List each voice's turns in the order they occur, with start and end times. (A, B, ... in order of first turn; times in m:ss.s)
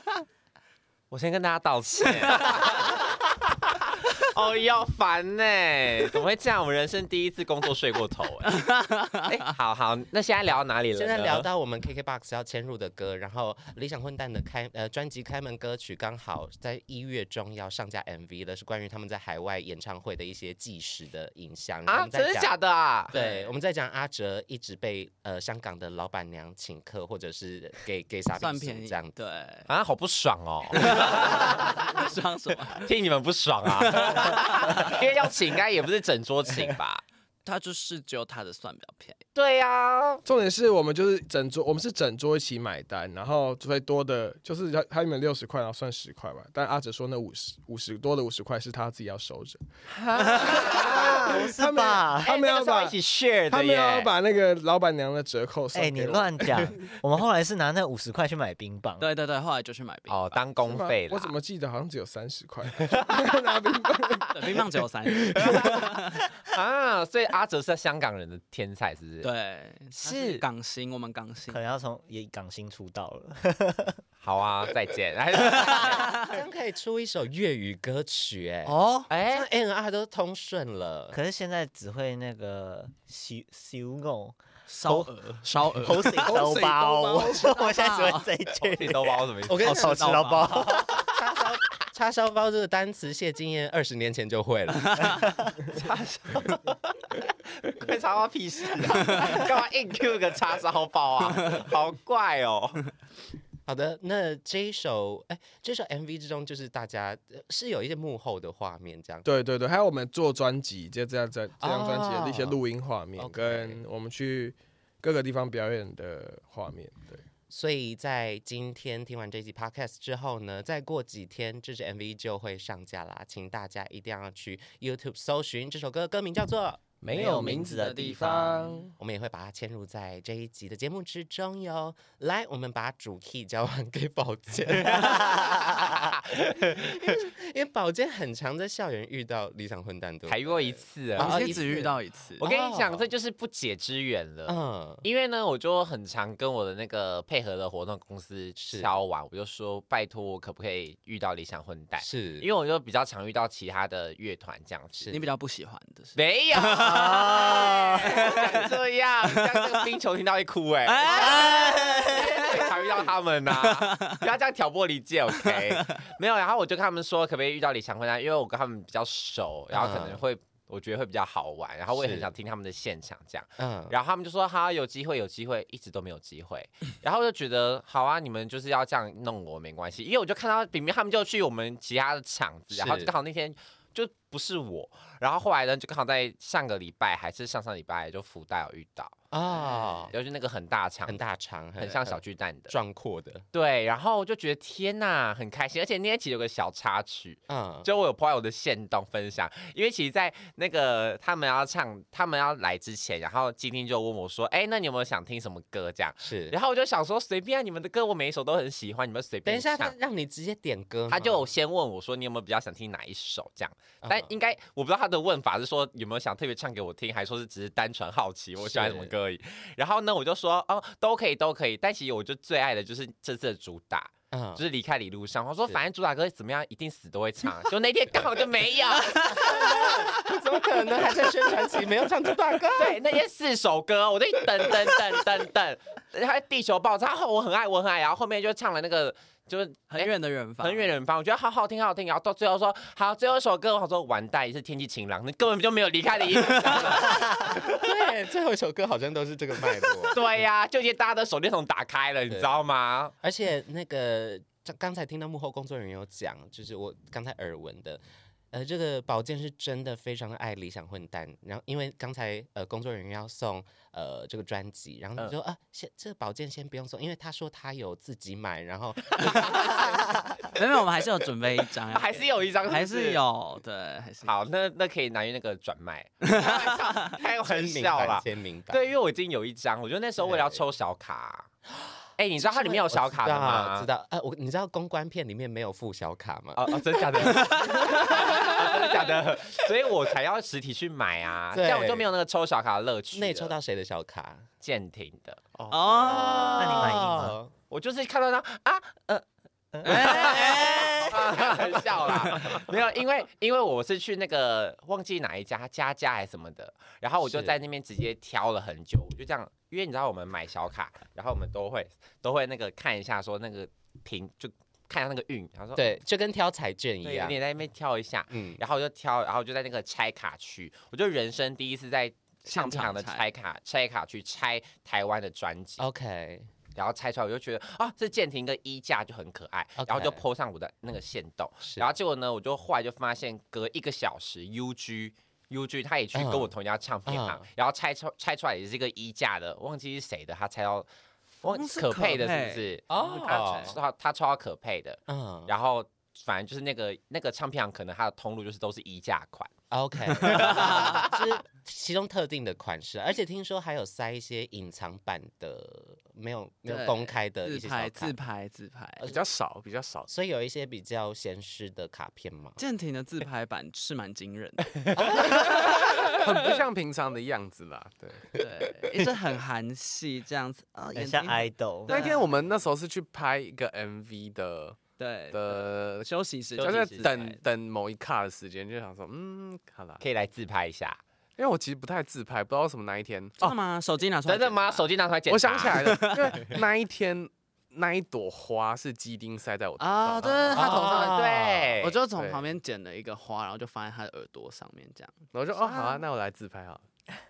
0:01.1-0:08.6 A
0:02.2-0:02.5 B
0:08.5-0:09.5 B
0:09.2-0:11.5 A
0:10.9-0:22.5 C
0:21.8-0:23.1 A
0:23.1-0:23.5 B
0:23.1-0:29.1 C
0:28.4-0:29.7 B
0:29.7-0:32.0 A
0:30.7-0:32.9 B
0:32.7-0:37.0 A
0:33.8-0:35.0 B
0:37.4-0:39.2 B
0:39.3-0:40.2 A
0:40.2-0:56.9 D
0:50.2-0:51.3 A
0:50.3-0:52.3 E
0:52.2-0:54.1 A
0:55.7-0:59.0 E
0:59.0-1:00.4 B
1:00.1-1:01.3 A
1:00.6-1:04.6 D
1:04.3-1:06.1 B
1:05.2-1:05.8 D
1:05.4-1:09.3 A
1:09.2-1:11.6 B
1:09.9-1:10.4 A
1:11.5-1:14.0 E
1:14.2-1:16.3 A
1:15.4-1:18.7 C
1:18.6-1:19.1 B
1:19.1-1:19.5 A
1:19.2-1:21.2 C
1:21.1-1:31.0 E
1:24.7-1:26.3 B
1:26.2-1:27.5 D
1:27.4-1:28.3 B
1:28.6-1:29.8 A
1:29.4-1:35.3 C
1:29.6-1:30.7 B
1:34.8-1:35.3 B
1:35.7-1:42.9 A
1:43.6-1:49.2 C
1:49.2-1:57.2 D
1:51.6-1:52.6 C
1:53.2-1:53.8 C
1:57.5-2:06.8 C
2:07.0-2:08.9 D
2:07.1-2:08.7 E
2:07.1-2:08.9 B
2:09.0-2:23.1 C
2:14.8-2:17.1 A
2:20.2-2:21.8 A
2:21.2-2:22.4 B
2:22.4-2:35.1 A
2:24.5-2:25.0 C
2:28.6-2:29.0 C
2:32.0-2:32.5 C
2:35.0-2:35.3 C
2:35.1-2:38.7 B
2:36.1-3:11.2 A
2:39.3-2:39.8 B
2:40.8-2:42.7 B
2:41.3-2:42.2 E
2:43.6-2:44.2 B
2:45.4-2:46.0 B
2:49.7-2:50.2 C
2:51.9-2:52.3 C
2:53.6-2:53.9 C
3:02.7-3:03.1 C
3:09.3-3:10.1 C
3:11.0-3:13.4 C
3:11.8-3:12.8 A
3:13.5-3:29.9 A
3:17.5-3:17.9 C
3:26.2-3:26.6 C
3:29.4-3:31.5 C
3:31.1-3:50.2 A
3:34.0-3:34.3 C
3:38.6-3:39.1 C
3:44.3-3:44.6 C
3:49.2-3:53.0 C
3:52.7-4:07.8 A
3:59.9-4:00.9 B
4:06.5-4:06.8 B
4:07.1-4:10.2 C
4:10.1-4:13.1 A
4:12.3-4:12.5 C
4:13.2-4:30.5 C
4:29.3-4:29.5 B
4:29.4-4:29.9 A
4:30.5-4:34.3 B
4:31.9-4:33.2 A
4:34.2-4:41.5 A
4:36.2-4:37.1 B
4:37.4-4:38.8 C
4:40.2-4:40.6 C
4:42.2-4:43.9 A
4:42.4-4:49.2 C
4:46.6-4:53.6 A
4:51.5-4:52.1 C
4:53.1-4:54.5 C
4:54.6-4:55.4 A
4:55.6-4:56.6 F
4:55.7-4:56.9 B
4:56.1-4:57.5 C
4:56.6-4:57.4 E
4:57.7-4:59.2 A
4:59.8-5:15.9 A
4:59.8-5:01.5 B
5:00.0-5:00.4 E
5:07.2-5:07.6 C
5:15.8-5:17.4 C
5:17.0-5:25.8 A
5:18.3-5:18.6 C
5:22.4-5:23.2 B
5:25.8-5:26.5 C
5:26.7-5:40.9 A
5:29.8-5:30.2 C
5:31.6-5:31.9 C
5:36.1-5:36.5 C
5:37.1-5:37.4 C
5:41.4-5:49.5 A
5:41.5-5:43.8 B
5:42.9-5:43.8 C
5:45.1-5:45.5 C
5:49.7-5:58.1 C
5:50.2-5:51.2 A
5:50.2-5:51.0 B
5:56.7-5:59.2 B
5:59.0-6:00.1 F
6:00.1-6:02.6 C
6:02.6-6:05.6 B
6:04.9-6:06.1 C
6:06.0-6:08.3 F
6:08.4-6:12.3 B
6:10.9-6:12.0 E
6:11.9-6:14.8 F
6:15.0-6:17.4 B
6:15.3-6:16.1 F
6:16.6-6:17.1 A
6:16.6-6:20.0 F
6:20.0-6:21.0 A
6:21.4-6:23.4 F
6:23.4-6:24.9 B
6:24.2-6:26.4 A
6:25.3-6:30.6 F
6:25.7-6:26.6 B
6:29.8-6:31.2 B
6:30.5-6:32.0 A
6:30.6-6:31.8 C
6:31.8-6:36.0 B
6:32.1-6:32.4 F
6:35.3-6:36.8 F